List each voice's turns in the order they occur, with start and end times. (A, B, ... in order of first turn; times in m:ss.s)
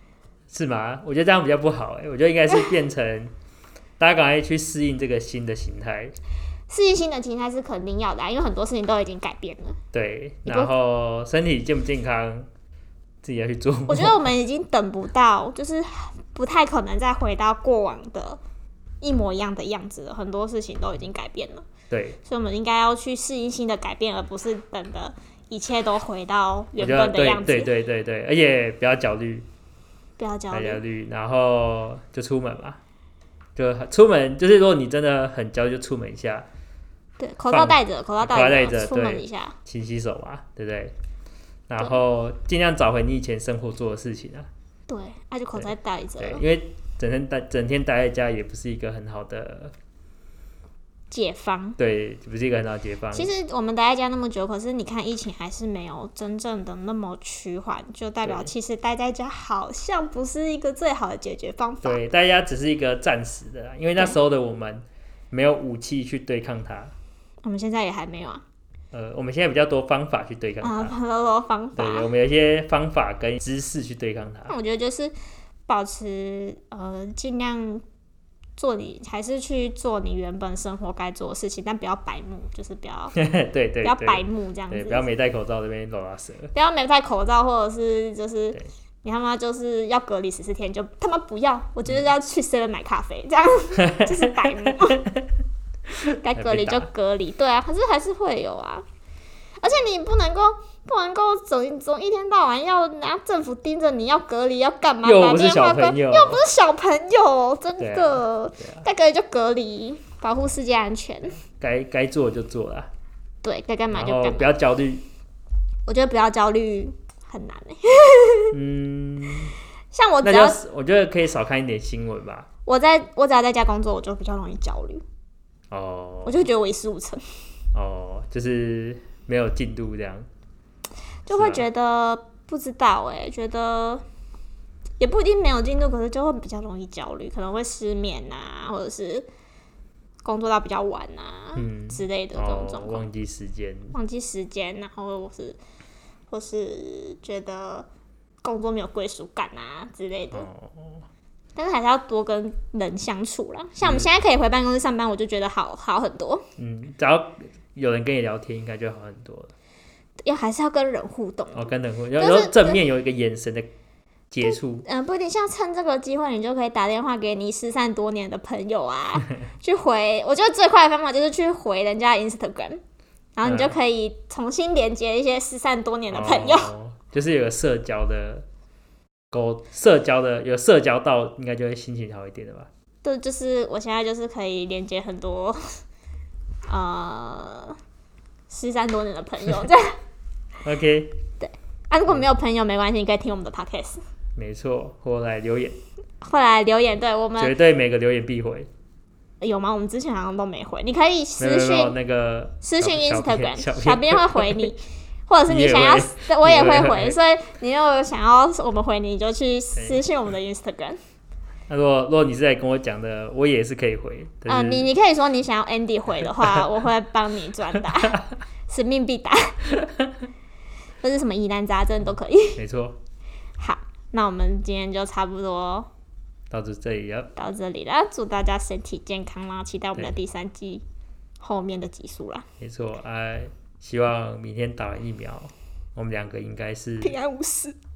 0:00.5-0:03.3 A
0:04.0-0:06.2 A
0:06.7-0:09.8 B
0:09.9-0:12.5 A
0:10.5-0:10.7 B
0:13.2-0:14.2 A
0:13.9-0:18.4 B
0:19.0-0:21.7 B
0:21.9-0:22.2 A
0:22.2-0:27.7 B
0:26.8-0:29.5 A
0:30.2-0:30.8 B
0:30.5-0:32.8 A
0:33.6-0:36.5 A
0:37.2-0:39.6 B
0:37.5-0:41.0 A
0:41.7-0:44.5 A
0:44.9-0:46.4 B
0:45.6-0:49.7 A
0:51.1-0:51.8 B
0:51.8-0:53.3 A
0:53.1-1:02.0 B
0:58.2-0:58.5 A
1:01.8-1:06.9 A
1:07.4-1:08.4 B
1:08.9-1:11.0 A
1:10.6-1:12.1 B
1:11.8-1:14.5 A
1:14.5-1:15.1 B
1:15.7-1:17.8 B
1:18.6-1:23.2 B
1:23.2-1:26.5 A
1:23.8-1:25.1 B
1:26.5-1:35.0 B
1:33.8-1:35.3 A
1:36.0-1:36.9 A
1:36.2-1:38.8 B
1:39.6-1:51.4 B
1:45.0-1:46.4 A
1:47.8-1:48.8 A
1:51.4-1:52.9 A
1:53.4-1:54.5 B
1:53.9-1:55.0 A
1:55.9-1:58.6 B
1:58.5-1:59.5 A
1:59.9-2:00.6 B
2:00.2-2:02.5 A
2:02.7-2:05.0 B
2:05.7-2:06.5 A
2:06.2-2:07.2 B
2:07.7-2:10.3 A
2:11.3-2:14.0 B
2:11.3-2:11.6 A
2:15.0-2:19.3 B
2:20.2-2:23.0 B
2:21.6-2:24.0 A
2:23.9-2:25.6 B
2:26.3-2:27.9 B
2:28.4-2:30.5 B
2:30.3-2:31.0 A
2:31.6-2:36.5 B
2:33.8-2:34.1 A
2:36.6-2:39.5 A
2:40.2-2:42.8 B
2:41.5-2:43.7 A
2:44.3-2:44.8 A
2:44.4-2:52.8 B
2:53.4-2:56.7 B
2:53.4-2:53.8 A
2:56.1-2:58.5 A
2:59.3-3:02.7 A
3:03.0-3:05.6 B
3:06.7-3:07.8 B
3:08.5-3:10.0 B
3:10.6-3:11.2 A
3:11.4-3:14.0 B
3:14.4-3:15.8 A
3:16.2-3:17.6 B
3:17.4-3:18.7 A
3:19.4-3:21.9 B
3:21.4-3:24.7 A
3:22.6-3:31.0 B
3:25.5-3:27.2 A
3:29.8-3:30.0 A
3:31.7-3:34.9 A
3:34.5-3:39.6 B
3:36.4-3:36.7 A
3:41.0-3:42.6 B
3:42.6-3:43.0 A
3:43.6-3:45.9 B
3:46.5-3:47.3 A
3:47.4-3:50.8 B
3:51.4-3:52.5 B
3:52.6-3:57.2 A
3:57.0-3:57.8 B